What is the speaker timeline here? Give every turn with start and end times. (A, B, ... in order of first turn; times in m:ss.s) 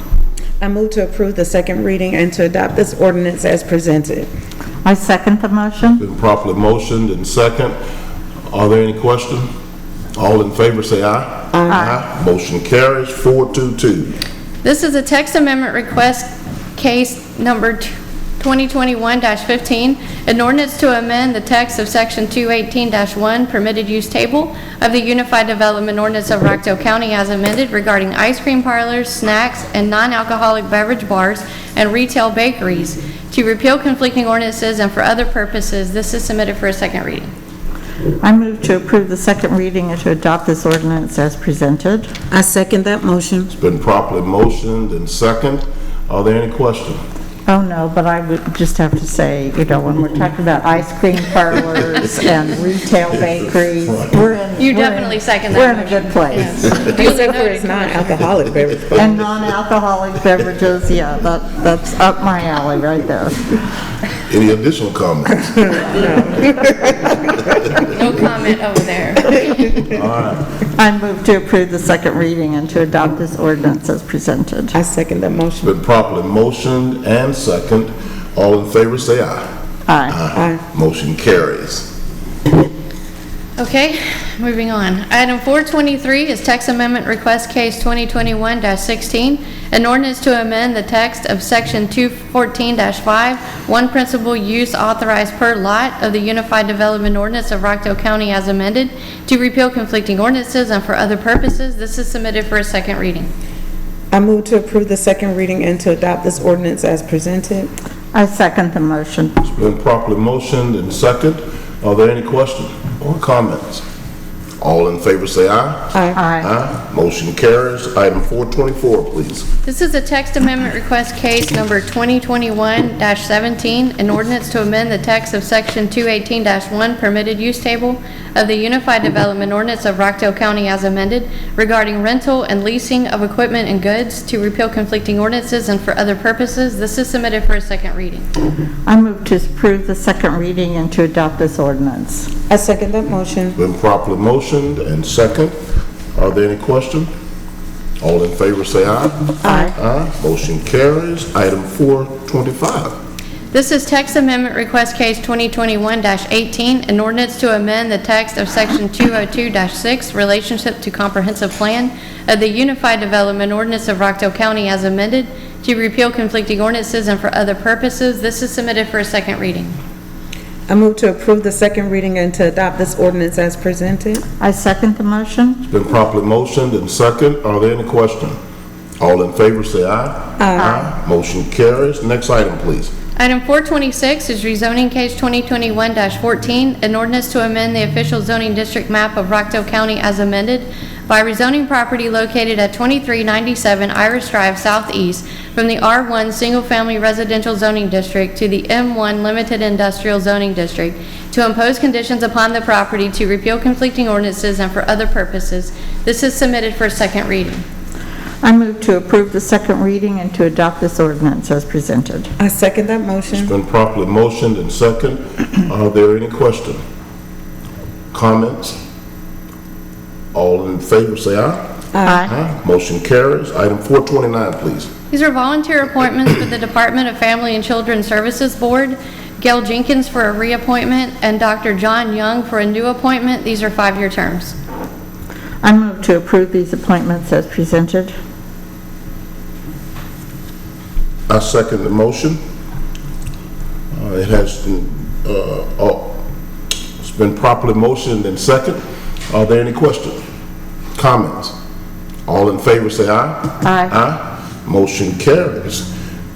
0:00.6-0:04.3 A
0:04.8-0:06.0 B
0:06.0-0:07.7 C
0:08.5-0:09.5 C
0:10.2-0:14.2 C
0:11.5-0:11.8 A
0:11.7-0:12.0 B
0:14.6-0:37.3 D
0:38.2-0:42.1 B
0:42.3-0:43.5 A
0:43.6-0:47.0 C
0:47.5-0:56.8 B
0:54.6-0:58.2 D
0:56.8-0:59.1 A
0:58.9-1:03.6 B
1:04.3-1:06.2 C
1:06.3-1:06.9 A
1:07.9-1:09.9 D
1:09.9-1:10.4 C
1:10.8-1:14.8 B
1:14.7-1:15.7 A
1:15.6-1:19.4 C
1:19.9-1:20.2 B
1:20.1-1:21.9 C
1:20.3-1:20.6 A
1:23.6-1:43.3 D
1:44.1-1:47.7 A
1:48.1-1:49.4 B
1:49.4-1:53.8 C
1:54.6-1:59.5 C
1:55.9-1:56.2 A
1:56.2-1:56.5 B
1:59.6-2:18.2 D
2:18.9-2:22.3 B
2:22.5-2:23.6 A
2:23.6-2:25.5 C
2:26.2-2:27.1 C
2:28.0-2:32.9 C
2:29.4-2:29.7 A
2:33.5-2:49.8 D
2:50.7-2:54.2 A
2:54.4-2:55.6 B
2:55.7-2:58.4 C
2:59.0-3:02.9 C
3:00.4-3:00.9 A
3:03.2-3:27.6 D
3:28.4-3:32.3 B
3:32.4-3:33.5 A
3:33.3-3:36.8 C
3:38.1-3:38.8 C
3:40.3-3:41.6 C
3:41.9-3:42.3 A
3:42.1-3:42.3 B
3:42.2-3:44.9 C
3:45.1-3:54.6 D
3:55.6-3:58.1 B
4:01.3-4:02.4 C
4:03.9-4:06.2 C
4:07.0-4:10.2 C
4:10.9-4:11.5 C
4:12.2-4:15.9 C
4:13.6-4:13.9 B